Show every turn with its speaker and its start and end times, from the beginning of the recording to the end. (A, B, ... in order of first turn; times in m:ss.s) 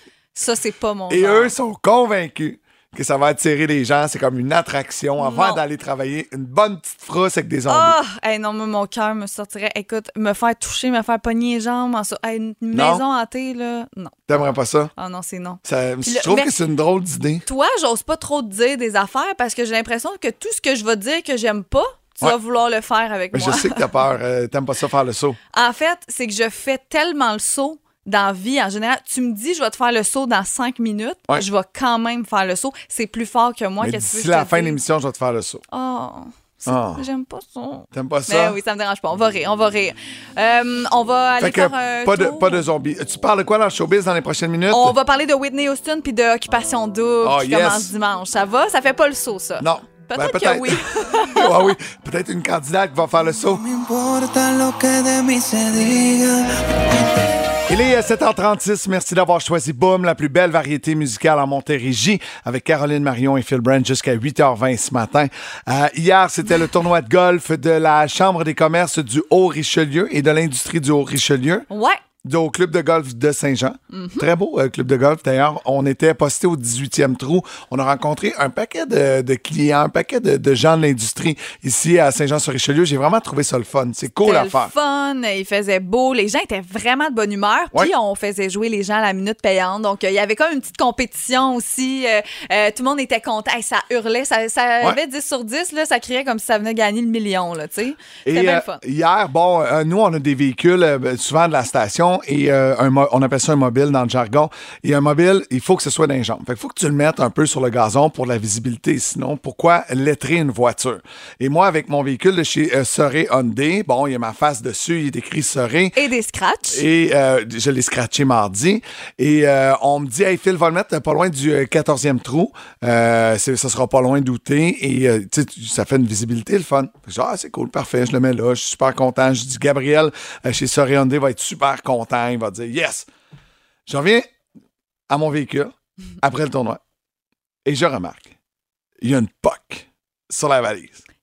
0:00.4-0:01.5 A
0:01.1-0:08.0 B
0:05.2-0:05.6 A
0:07.7-0:14.2 A
0:12.7-0:13.0 B
0:14.3-0:14.9 B
0:15.0-0:16.5 A
0:15.6-0:17.4 B
0:17.4-0:23.9 A
0:23.3-0:25.4 B
0:25.5-0:34.8 A
0:33.8-0:35.6 B
0:35.7-0:42.6 A
0:36.7-0:37.0 B
0:37.9-0:38.6 B
0:41.4-0:45.0 B
0:44.7-0:51.5 A
0:47.2-0:47.9 B
0:49.6-0:53.6 B
0:53.8-0:56.4 C
0:57.7-1:11.7 B
1:11.7-1:12.0 A
1:12.2-1:24.7 B
1:13.9-1:14.3 A
1:24.2-1:38.8 A
1:38.3-1:56.0 B
1:56.0-1:56.8 A
1:56.7-2:13.1 B
2:13.9-2:14.3 B
2:15.1-2:16.8 B
2:17.6-2:18.3 B
2:19.0-2:21.0 B